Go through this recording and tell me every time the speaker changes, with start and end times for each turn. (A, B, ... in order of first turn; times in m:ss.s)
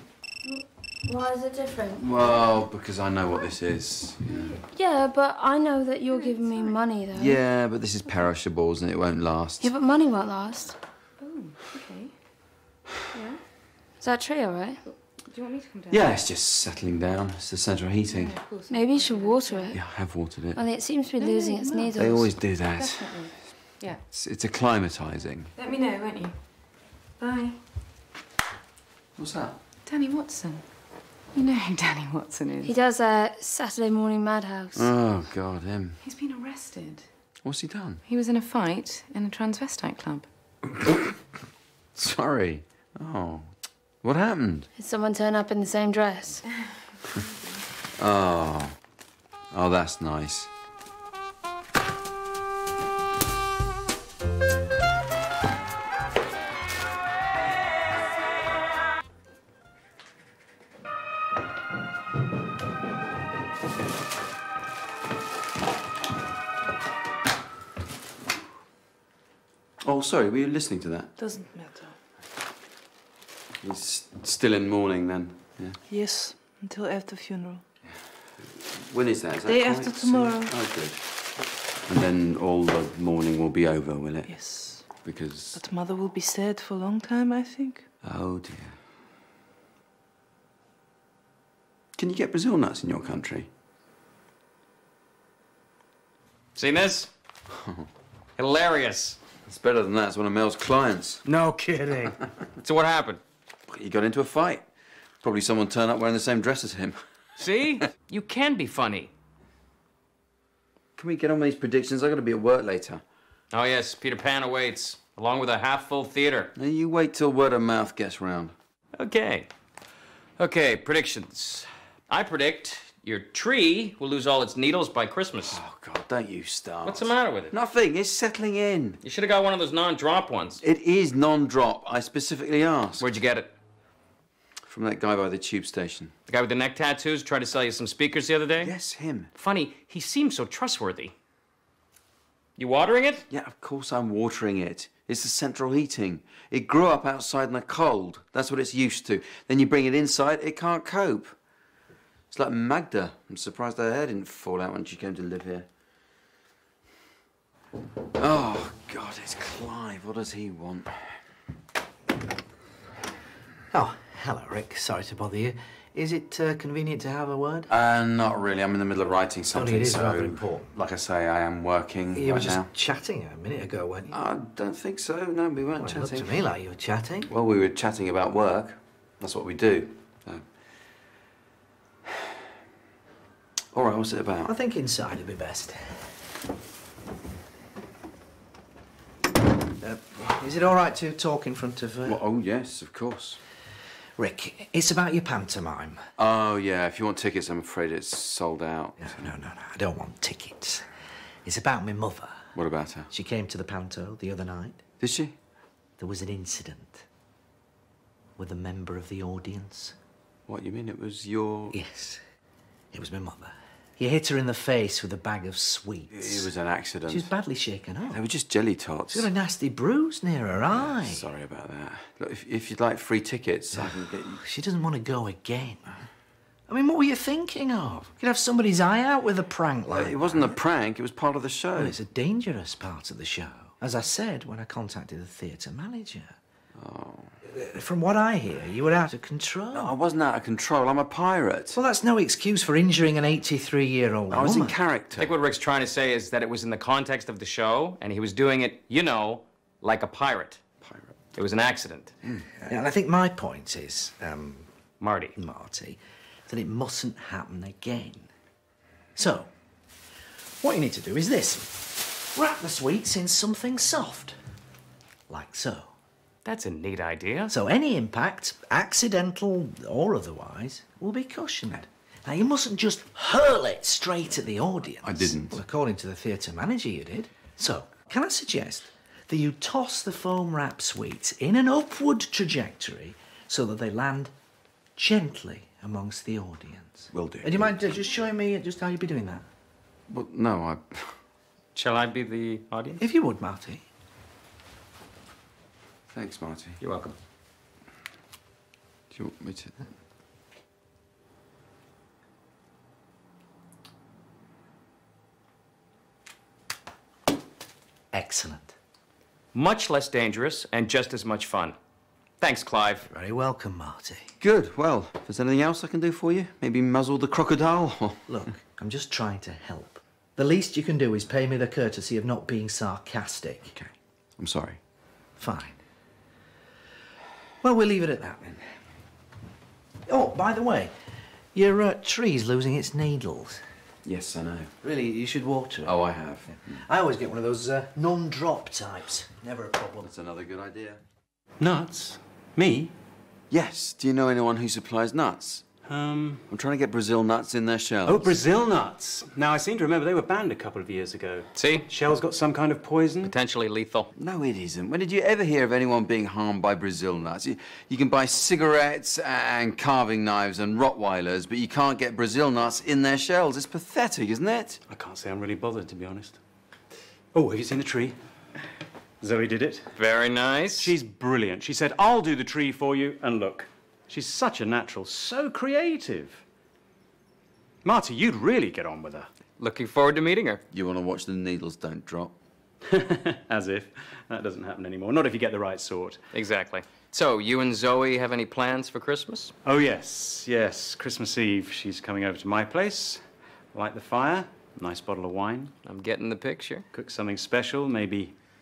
0:00.5-0:02.4 A
0:02.0-0:04.5 B
0:04.3-0:04.6 C
0:04.7-0:07.4 A
0:06.1-0:06.8 C
0:07.2-0:09.7 B
0:09.6-0:10.8 A
0:11.2-0:12.1 C
0:14.0-0:14.8 A
0:14.8-0:16.2 C
0:15.9-0:18.4 B
0:18.1-0:19.8 C
0:18.7-0:19.9 A
0:19.7-0:20.6 B
0:20.6-0:22.3 A
0:21.2-0:22.0 C
0:22.0-0:23.3 B
0:22.8-0:24.0 C
0:24.1-0:25.5 B
0:25.6-0:26.4 C
0:27.2-0:27.6 C
0:29.2-0:29.6 B
0:29.9-0:30.7 C
0:31.3-0:32.7 C
0:32.6-0:34.9 A
0:34.8-0:36.0 B
0:36.0-0:37.1 C
0:37.4-0:38.0 B
0:38.1-0:40.3 C
0:40.8-0:41.1 B
0:42.0-0:44.7 B
0:44.8-0:46.4 A
0:48.0-0:48.7 B
0:49.5-0:50.5 B
1:09.8-1:11.1 B
1:11.2-1:12.0 D
1:13.6-1:15.8 B
1:15.9-1:17.6 D
1:18.8-1:21.1 B
1:19.4-1:20.5 D
1:21.9-1:24.3 B
1:24.3-1:24.9 D
1:24.9-1:25.6 B
1:25.6-1:27.9 D
1:28.0-1:28.8 B
1:32.0-1:33.5 B
1:36.6-1:37.1 E
1:37.5-1:37.9 B
1:38.4-1:39.2 E
1:39.5-1:41.2 B
1:41.3-1:43.2 E
1:43.7-1:44.7 B
1:45.2-1:47.0 B
1:47.4-1:49.1 E
1:51.0-1:53.0 B
1:53.5-1:56.5 E
1:56.6-1:58.5 B
1:59.0-1:59.5 E
2:00.4-2:05.6 E
2:05.4-2:09.0 B
2:06.8-2:07.6 E
2:09.0-2:10.6 E
2:10.6-2:13.1 B
2:13.0-2:13.5 E
2:14.7-2:16.1 B
2:16.3-2:18.7 E
2:18.6-2:19.3 B
2:19.4-2:21.1 E
2:22.6-2:23.3 E
2:23.3-2:31.4 B
2:32.3-2:35.7 B
2:38.2-2:41.1 B
2:43.7-2:47.7 F
2:47.7-2:52.7 B
2:49.5-2:50.7 F
2:52.2-2:54.2 F
2:54.1-2:56.3 B
2:55.8-2:57.3 F
2:57.3-3:00.5 B
3:03.7-3:04.5 B
3:04.4-3:06.1 F
3:09.8-3:12.2 F
3:12.1-3:13.4 B
3:14.2-3:16.0 F
3:16.2-3:19.2 B
3:19.0-3:20.9 F
3:21.4-3:22.5 F
3:22.6-3:23.1 B
3:23.1-3:24.8 F
3:25.0-3:25.4 B
3:26.0-3:27.0 F
3:28.4-3:30.0 F
3:30.5-3:31.8 B
3:31.7-3:32.2 F
3:32.9-3:36.5 F
3:36.1-3:37.3 B
3:37.1-3:38.2 F
3:38.1-3:39.3 B
3:39.1-3:41.3 F
3:41.0-3:44.4 B
3:43.8-3:46.0 F
3:46.7-3:50.6 F
3:49.9-3:52.0 B
3:51.8-3:56.4 F
3:56.8-3:57.3 B
3:57.5-3:59.9 F
3:59.7-4:01.8 B
4:01.7-4:04.8 F
4:04.3-4:05.4 B
4:05.2-4:10.6 E
4:10.8-4:11.1 B
4:11.4-4:12.1 E
4:12.7-4:14.7 F
4:15.0-4:15.4 E
4:15.4-4:18.3 F
4:19.2-4:19.5 F
4:20.6-4:24.4 F
4:25.3-4:25.9 F
4:26.4-4:27.5 E
4:27.5-4:44.3 F
4:35.0-4:35.6 B
4:45.0-4:49.4 F
4:47.1-4:47.9 B
4:50.1-4:51.2 B
4:51.8-4:53.1 E
4:53.0-4:53.8 F
4:56.1-4:56.8 B
4:56.8-4:57.2 E
4:59.1-4:59.7 B
5:08.1-5:08.7 F
5:09.5-5:11.8 E
5:12.4-5:13.1 E
5:13.1-5:14.3 F
5:14.4-5:18.4 B
5:18.3-5:23.8 F
5:23.8-5:24.8 B
5:25.4-5:25.8 F
5:27.6-5:28.7 F
5:30.1-5:30.9 F
5:31.5-5:33.6 F
5:34.0-5:34.7 B
5:34.8-5:40.1 F
5:35.8-5:36.8 B
5:40.0-5:41.0 B
5:41.6-5:42.9 G
5:43.5-5:45.7 B
5:45.8-5:46.4 G
5:46.5-5:48.4 B
5:48.0-5:53.3 G
5:51.6-5:51.9 E
5:53.2-5:54.1 E
5:54.2-6:04.8 B
6:04.9-6:06.4 G
6:07.3-6:08.2 G
6:09.2-6:09.9 G
6:10.0-6:10.9 E
6:10.8-6:16.4 G
6:17.8-6:19.3 G
6:19.6-6:20.6 E
6:20.7-6:22.3 B
6:22.9-6:26.2 G
6:26.3-6:29.5 E
6:29.6-6:35.7 G
6:35.8-6:36.9 E
6:36.9-6:38.4 G